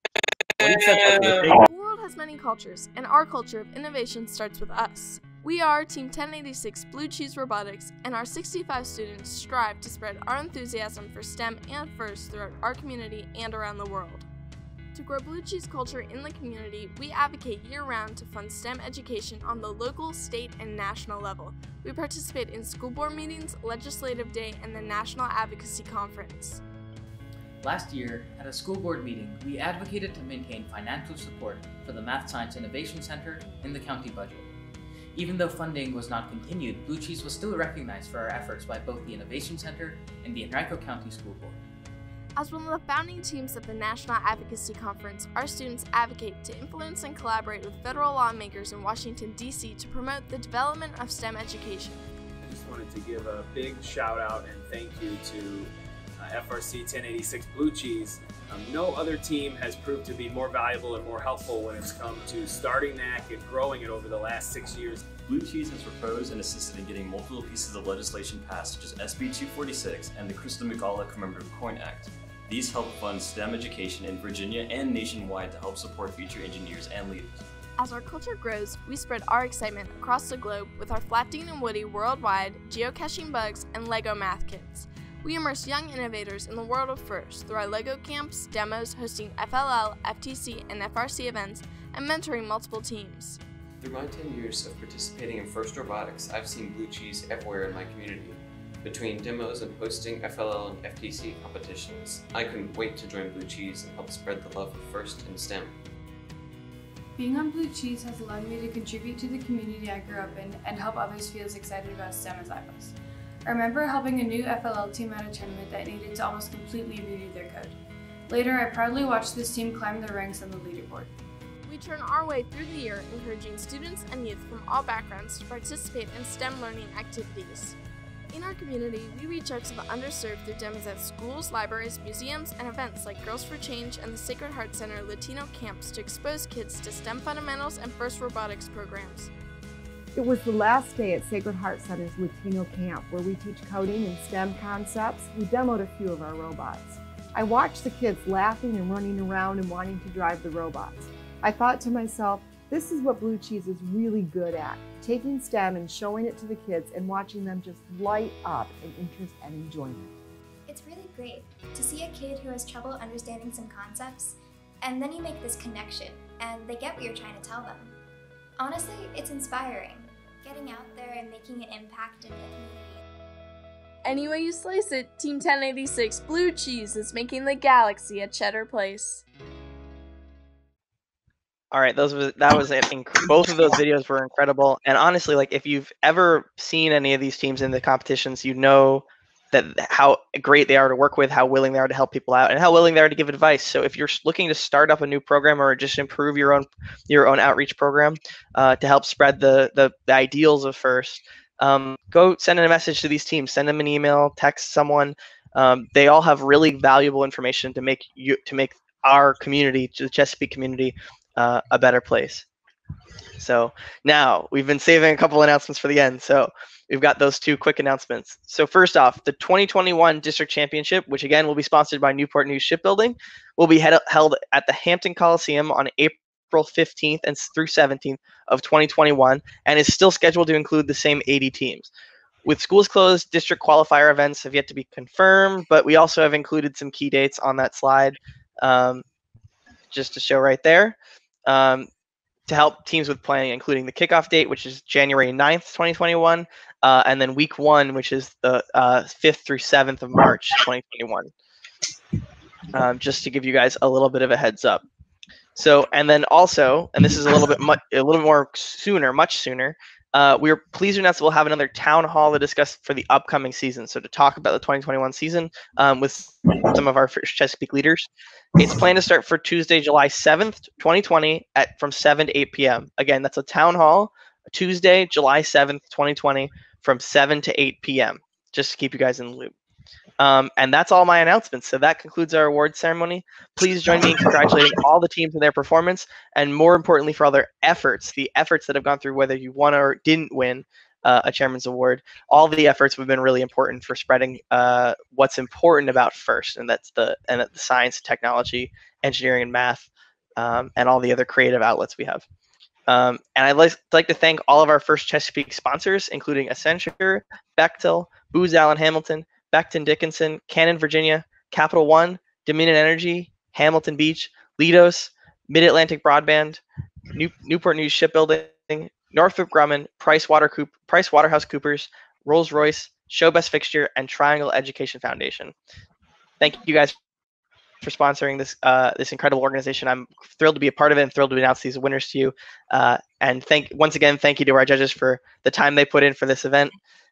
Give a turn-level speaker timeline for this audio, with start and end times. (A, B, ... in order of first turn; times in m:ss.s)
0:00.6-0:01.5 A
0:01.6-0:14.3 B
0:14.9-0:26.6 B
0:27.6-0:34.5 A
0:35.1-0:41.6 A
0:42.4-0:52.0 B
0:52.4-1:05.0 C
1:05.1-1:17.4 D
1:17.8-1:33.4 B
1:33.8-1:45.7 E
1:47.2-1:57.8 F
1:58.3-2:01.1 F
2:01.6-2:07.8 B
2:08.3-2:19.3 B
2:20.1-2:40.1 G
2:40.6-2:48.0 H
2:48.6-2:53.0 H
2:54.0-2:59.2 B
3:01.7-3:32.4 I
3:33.4-3:51.9 I
3:52.4-3:59.0 I
3:59.9-4:01.9 I
4:02.5-4:11.3 I
4:12.7-4:14.8 I
4:15.6-4:39.5 I
4:40.2-5:02.2 I
5:02.9-5:16.6 I
5:17.1-5:25.5 I
5:26.4-5:26.9 I
5:27.8-5:36.8 I